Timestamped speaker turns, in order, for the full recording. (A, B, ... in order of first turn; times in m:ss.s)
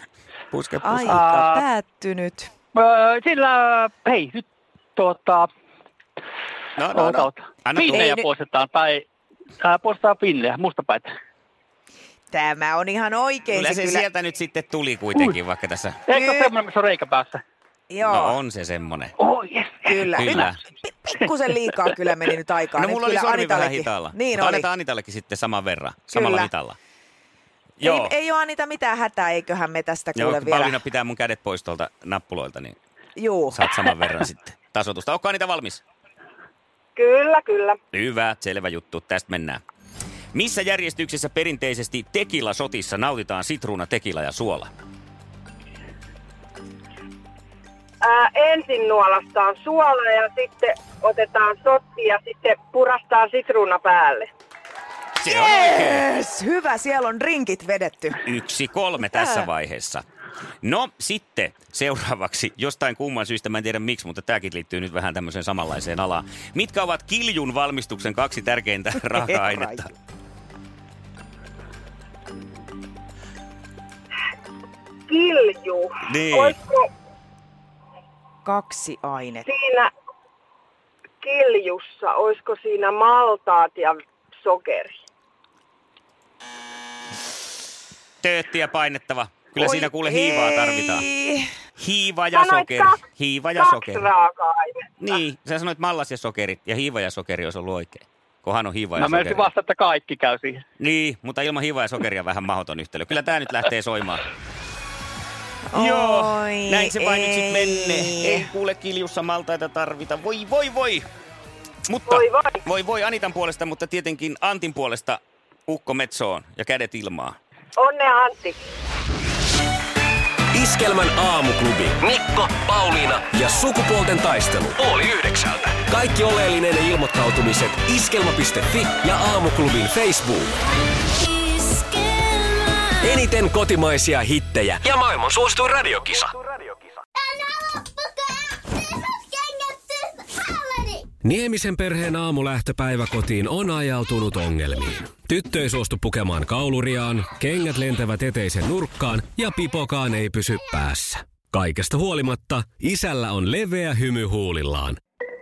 0:00.5-0:01.2 A
0:00.8-0:02.5 B
0:01.0-0:01.6 C
0:02.7-0:05.5 C
0:06.8-0:08.1 A
0:06.9-0:09.1 C
0:07.9-0:08.3 B
0:09.6-0:11.1 C
0:12.3-0:14.0 B
0:13.5-0:16.0 A
0:16.1-0:17.4 C
0:16.1-0:16.5 B
0:17.9-0:18.4 B
0:18.1-0:19.1 A
0:19.2-0:20.5 C
0:19.8-0:24.7 B
0:20.2-0:20.6 A
0:21.7-0:22.0 C
0:22.8-0:26.8 A
0:26.1-0:26.5 B
0:27.8-0:28.1 A
0:27.8-0:30.8 B
0:30.2-0:32.8 A
0:33.2-0:33.6 B
0:33.5-0:35.8 A
0:37.0-0:37.8 D
0:37.9-0:39.6 A
0:40.3-0:44.7 A
0:48.0-0:54.3 D
0:55.2-0:56.0 A
0:55.2-0:58.2 B
0:58.3-1:00.0 A
0:59.1-0:59.4 B
1:00.6-1:09.9 A
1:09.2-1:09.8 B
1:15.1-1:16.9 D
1:16.1-1:16.6 A
1:18.4-1:19.5 B
1:19.5-1:19.9 D
1:21.2-1:24.9 D
1:28.2-1:31.0 A
1:29.6-1:31.5 B
1:31.8-1:34.1 A
1:32.3-1:32.9 D
1:33.6-1:34.8 D
1:35.0-1:39.5 A
1:39.0-1:40.6 C
1:40.8-1:44.2 A
1:45.7-1:48.5 B
1:45.7-1:51.1 A
1:51.9-1:57.4 A
1:52.1-1:52.6 D
1:57.8-1:58.6 D
2:00.5-2:10.5 E
2:12.9-2:16.6 E
2:21.2-2:35.0 E